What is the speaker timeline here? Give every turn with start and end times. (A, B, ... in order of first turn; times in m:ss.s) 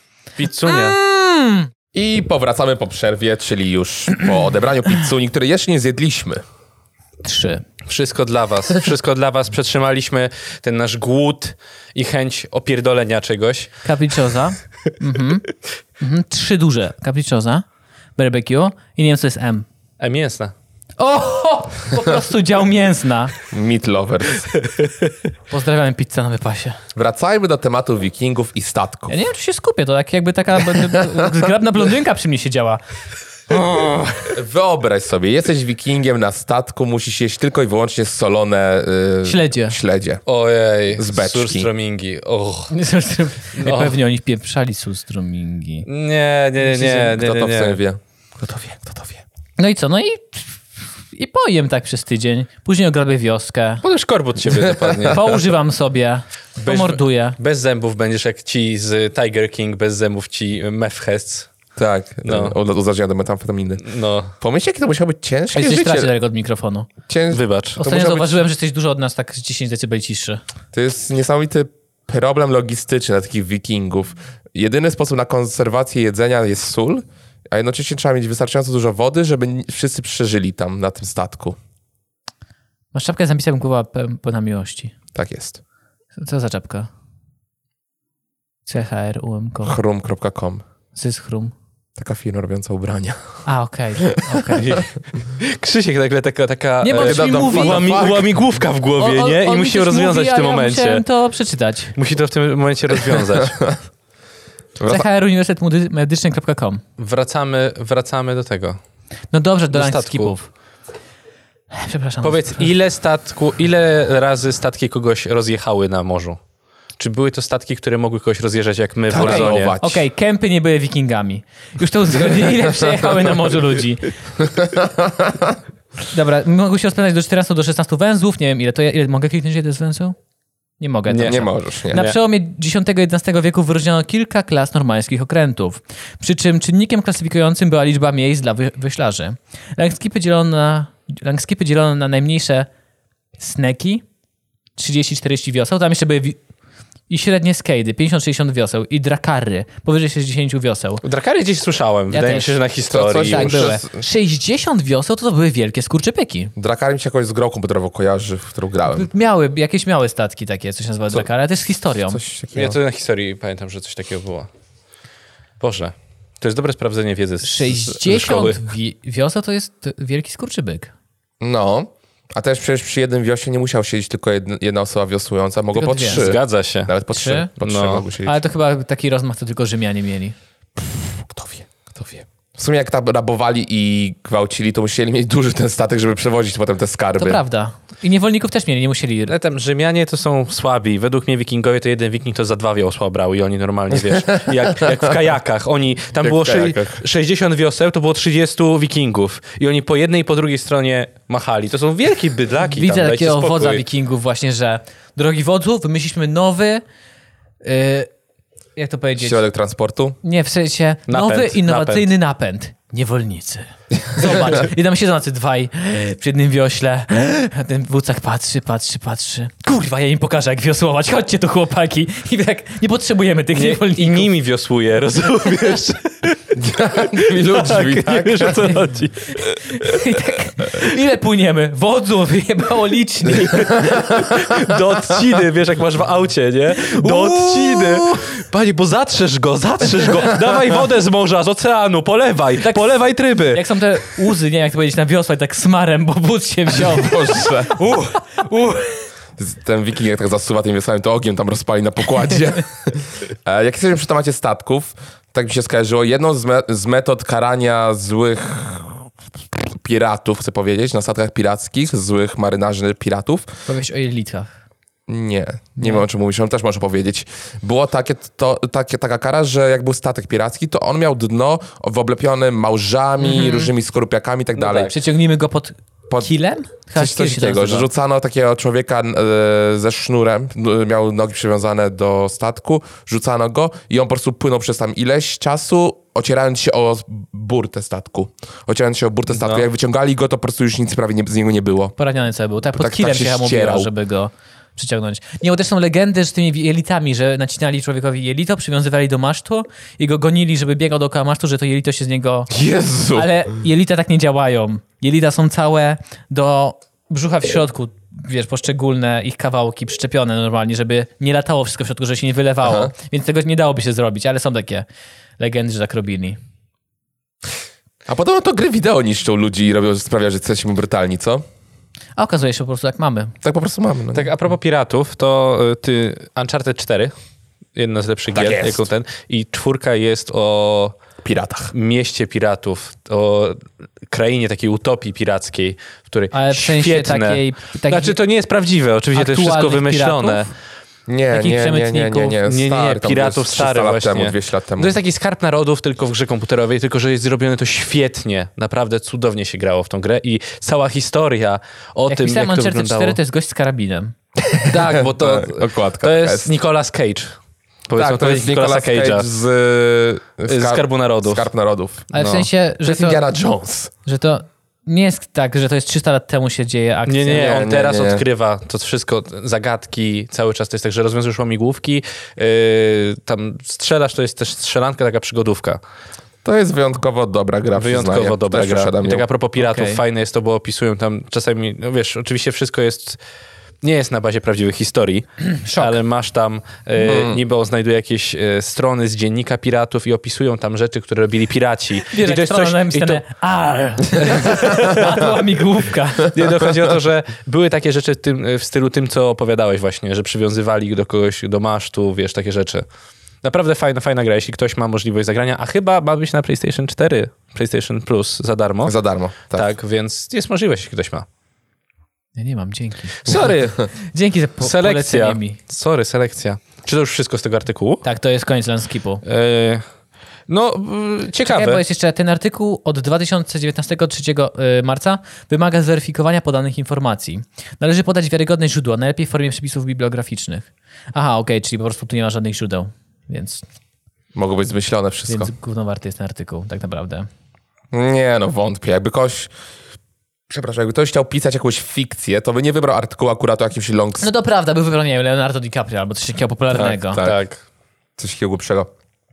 0:00.4-0:01.0 A
0:00.6-0:01.7 B
0:01.9-0:06.4 C
0:07.2-0:07.6 B
0:07.8-0:13.7 A
0:13.8-0:15.5 B
0:16.0-0:17.6 B
0:18.2-0:19.7 B
0:20.0-0:20.5 A
0:21.0-0:23.3 B
0:23.5-0:24.5 C
0:24.5-0:25.1 A
0:25.5-0:26.8 B
0:26.9-0:29.2 C
0:29.1-0:32.8 B
0:30.7-0:31.1 C
0:33.5-0:40.2 C
0:39.2-0:39.8 B
0:40.2-0:42.7 A
0:41.0-0:41.7 C
0:42.7-0:45.9 B
0:43.6-0:44.0 A
0:45.8-0:47.8 A
0:46.7-0:47.1 B
0:47.1-0:49.2 C
0:49.6-0:50.5 B
0:51.1-0:53.8 B
0:53.8-0:55.4 A
0:54.5-0:55.1 C
0:55.1-0:57.4 B
0:56.6-1:01.5 A
1:01.8-1:06.1 C
1:02.2-1:02.5 A
1:03.8-1:04.3 A
1:05.5-1:06.9 B
1:07.1-1:08.4 C
1:07.3-1:07.8 A
1:07.8-1:10.4 B
1:10.7-1:21.6 C
1:22.9-1:25.0 B
1:25.1-1:25.6 C
1:26.2-1:26.9 B
1:28.6-1:29.8 B
1:29.6-1:30.6 C
1:30.9-1:31.5 B
1:32.0-1:33.4 C
1:33.4-1:34.8 B
1:34.1-1:34.8 C
1:35.4-1:41.0 A
1:36.8-1:38.1 B
1:37.0-1:38.3 C
1:39.0-1:41.9 B
1:41.9-1:43.6 A
1:44.8-1:45.0 C
1:44.8-1:46.8 B
1:47.0-1:48.8 A
1:49.3-1:50.5 B
1:49.7-1:50.3 A
1:51.7-1:52.7 B
1:52.2-1:56.4 A
1:57.0-1:59.8 A
1:59.1-2:00.0 C
1:59.1-2:04.1 B
2:04.4-2:05.6 C
2:06.1-2:10.2 B
2:10.8-2:22.7 B
2:11.1-2:12.2 A
2:11.2-2:12.1 C
2:23.4-2:24.0 B
2:24.8-2:26.4 B
2:27.1-2:31.0 B
2:31.0-2:33.7 A
2:32.1-2:32.6 B
2:32.9-2:34.0 C
2:33.2-2:36.5 B
2:36.6-2:39.1 C
2:38.9-2:42.2 B
2:42.1-2:42.8 C
2:42.5-2:44.5 A
2:45.6-2:48.6 A
2:47.4-2:50.9 B
2:51.4-2:58.4 C
2:55.8-2:56.3 B
2:56.0-2:56.9 A
2:57.1-2:57.5 B
2:57.6-2:58.0 A
2:58.2-3:00.4 B
3:00.8-3:07.4 C
3:07.2-3:09.3 B
3:09.3-3:23.8 A
3:14.2-3:14.5 C
3:16.2-3:17.0 C
3:22.6-3:26.8 B
3:27.6-3:28.1 B
3:28.8-3:29.4 B
3:29.2-3:30.2 C
3:30.2-3:44.3 B
3:31.1-3:32.1 A
3:43.5-3:46.4 A
3:45.4-3:45.9 B
3:46.5-3:48.6 C
3:47.2-3:49.9 A
3:49.4-3:54.3 B
3:53.4-4:03.6 A
3:56.8-3:58.2 B
4:02.6-4:09.1 B
4:06.7-4:07.8 C
4:09.4-4:23.5 C
4:23.7-4:24.5 B
4:25.1-4:34.9 C
4:25.8-4:26.0 B
4:33.2-4:33.7 B
4:34.6-4:34.9 A
4:34.9-4:37.9 B
4:37.0-4:51.9 C
4:49.3-4:49.6 A
4:52.0-5:02.5 B
4:52.8-4:53.9 C
5:02.5-5:03.3 C
5:03.1-5:14.9 B
5:12.6-5:12.9 C
5:15.4-5:16.4 B
5:18.1-5:21.4 C
5:22.2-5:23.4 B
5:23.4-5:24.3 C
5:24.1-5:27.1 A
5:27.8-5:31.0 A
5:28.3-5:28.9 C
5:31.2-5:31.7 C
5:31.7-5:40.5 A
5:36.3-5:38.2 B
5:39.1-5:40.4 B
5:41.1-5:44.9 C
5:41.3-5:42.4 B
5:42.4-5:53.2 A
5:52.1-5:54.1 B
5:54.4-5:56.5 C
5:54.6-5:59.3 A
5:58.0-6:02.1 C
6:00.5-6:01.5 A
6:02.1-6:02.5 A
6:02.1-6:03.2 B
6:02.8-6:03.9 C
6:04.0-6:07.6 B
6:07.0-6:15.8 A
6:07.3-6:08.2 C
6:16.4-6:19.3 C
6:17.8-6:23.2 A
6:19.6-6:20.0 B
6:23.8-6:33.2 A
6:25.6-6:25.9 B
6:27.0-6:27.4 C
6:32.1-6:36.4 B
6:34.3-6:35.2 A
6:36.3-6:42.9 A
6:43.4-6:48.9 A
6:48.8-6:49.7 C
6:49.5-6:51.3 A
6:52.4-6:55.6 B
6:53.2-6:53.8 A
6:54.6-6:58.0 A
6:58.0-6:59.2 B
6:59.2-6:59.8 A
7:00.5-7:01.8 A
7:01.4-7:13.6 B
7:14.4-7:15.5 C
7:15.3-7:17.3 B
7:17.9-7:19.5 C
7:20.5-7:24.3 C
7:24.2-7:27.2 B
7:26.7-7:27.4 C
7:27.2-7:27.6 A
7:28.2-7:28.9 C